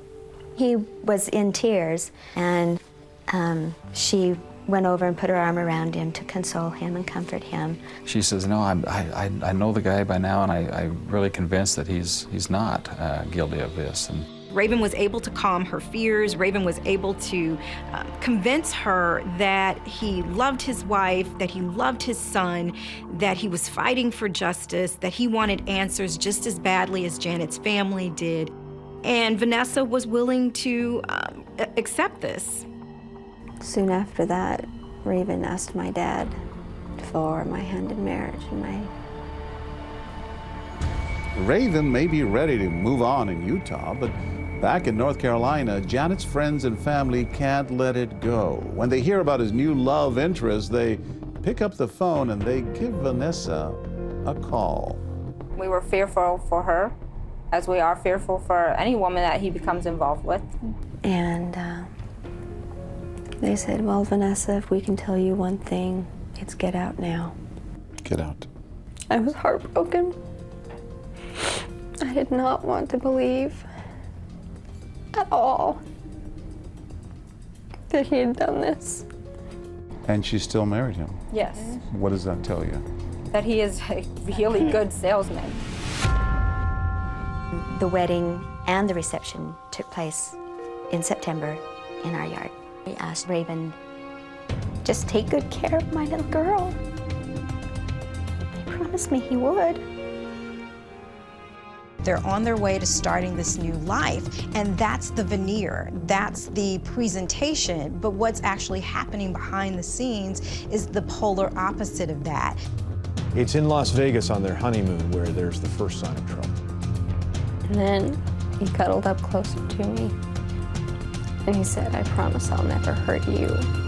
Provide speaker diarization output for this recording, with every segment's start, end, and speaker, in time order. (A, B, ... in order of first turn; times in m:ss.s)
0:00.6-0:07.8 A
0:08.0-0:14.2 B
0:14.5-0:32.6 C
0:33.6-0:36.4 D
0:37.0-0:38.9 D
0:41.3-0:55.0 E
0:55.6-0:56.9 F
0:57.5-1:00.5 F
1:01.0-1:01.9 D
1:03.4-1:07.4 D
1:08.0-1:08.5 E
1:09.1-1:10.2 D
1:12.0-1:13.7 D
1:15.1-1:15.8 D
1:17.9-1:19.1 D
1:20.0-1:21.2 E
1:21.3-1:21.8 F
1:21.7-1:22.8 E
1:23.3-1:25.6 F
1:27.5-1:30.4 A
1:30.9-1:33.8 A
1:34.8-1:36.8 A
1:38.5-1:39.8 A
1:42.0-1:52.6 C
1:53.3-1:56.5 G
1:57.7-2:00.2 D
2:01.4-2:03.7 D